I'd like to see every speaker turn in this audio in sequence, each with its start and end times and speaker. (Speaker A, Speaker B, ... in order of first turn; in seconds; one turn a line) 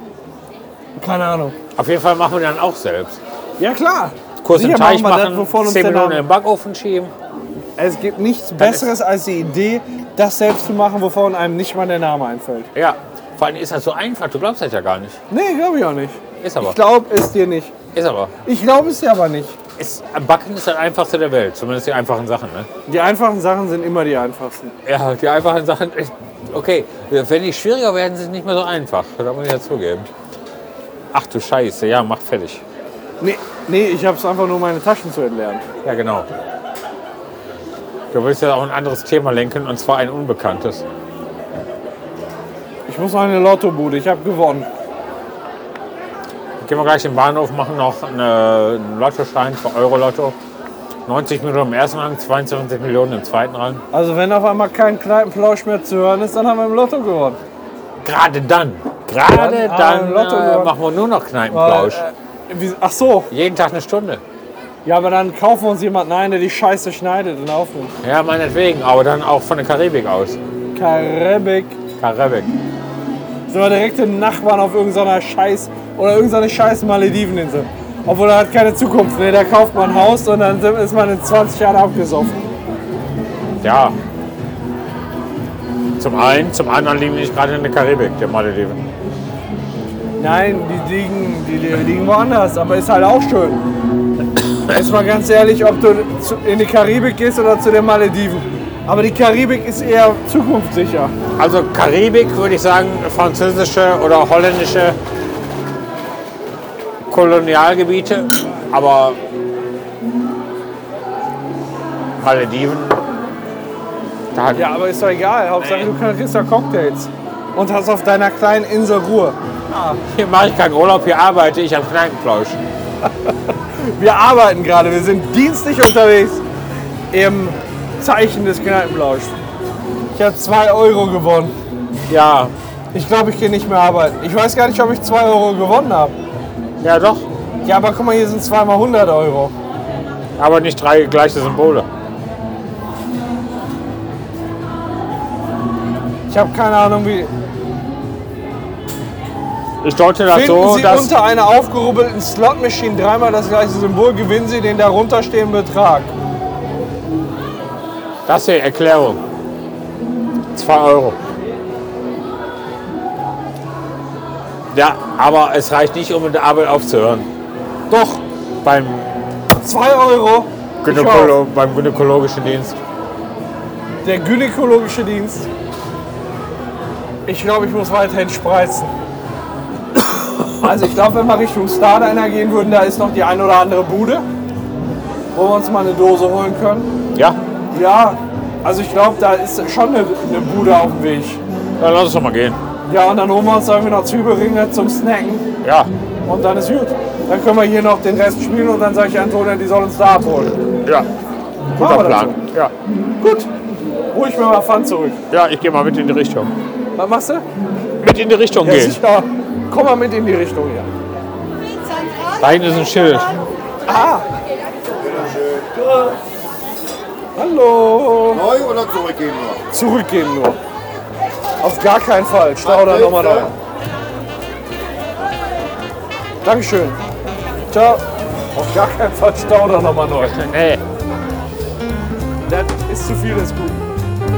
Speaker A: 1.0-1.6
Speaker B: 1.8-3.2
Speaker A: 3.6-6.2
Speaker B: 4.4-7.1
Speaker A: 7.8-12.7
Speaker B: 8.6-8.9
Speaker B: 12.7-15.2
Speaker A: 15.3-17.7
Speaker B: 16.4-16.8
Speaker B: 17.9-18.3
Speaker A: 18.4-19.6
Speaker B: 19.8-22.7
Speaker A: 22.9-24.7
Speaker B: 24.9-30.1
Speaker B: 31.1-32.6
Speaker A: 33.2-35.6
Speaker B: 35.8-36.3
Speaker B: 38.1-40.8
Speaker A: 42.9-44.7
Speaker B: 46.6-50.4
Speaker B: 51.0-53.8
Speaker A: 53.9-57.4
Speaker B: 58.0-62.0
Speaker A: 59.2-60.7
Speaker A: 61.5-63.3
Speaker B: 63.3-64.2
Speaker A: 64.8-67.9
Speaker B: 68.0-70.4
Speaker A: 70.7-71.8
Speaker B: 72.0-72.5
Speaker A: 73.5-82.4
Speaker B: 83.6-84.0
Speaker B: 86.0-88.8
Speaker A: 90.2-93.6
Speaker A: 94.7-101.1
Speaker B: 101.4-105.0
Speaker B: 107.1-109.2
Speaker B: 112.2-113.0
Speaker B: 114.3-114.7
Speaker A: 114.5-120.0
Speaker B: 120.0-122.6
Speaker A: 123.3-126.4
Speaker A: 127.1-129.3
Speaker A: 130.1-131.5
Speaker B: 132.1-132.5
Speaker A: 132.9-136.2
Speaker B: 136.8-137.3
Speaker A: 137.6-139.5
Speaker B: 140.4-141.9
Speaker A: 146.3-147.3
Speaker B: 149.8-151.1
Speaker A: 150.3-156.1
Speaker B: 158.3-159.2
Speaker B: 160.5-161.2
Speaker B: 164.7-167.3
Speaker A: 167.9-168.2
Speaker B: 168.6-169.3
Speaker A: 169.6-171.3
Speaker B: 170.8-172.8
Speaker A: 174.0-175.5
Speaker A: 177.3-178.9
Speaker A: 180.6-184.2
Speaker A: 185.3-186.9
Speaker A: 187.7-191.4
Speaker B: 191.8-192.6
Speaker A: 192.9-195.4
Speaker B: 195.6-195.9
Speaker A: 196.2-200.6
Speaker A: 201.7-202.4
Speaker B: 201.7-202.7
Speaker A: 203.2-203.5
Speaker A: 204.1-205.2
Speaker B: 205.3-206.5
Speaker A: 206.9-207.4
Speaker B: 208.0-209.0
Speaker A: 208.6-210.9
Speaker B: 212.4-213.4
Speaker A: 213.9-214.2
Speaker A: 217.3-218.6
Speaker A: 219.7-220.6
Speaker A: 221.6-223.5
Speaker A: 226.4-227.0
Speaker A: 227.7-228.0
Speaker A: 228.5-230.3
Speaker B: 230.2-230.8
Speaker A: 232.5-233.8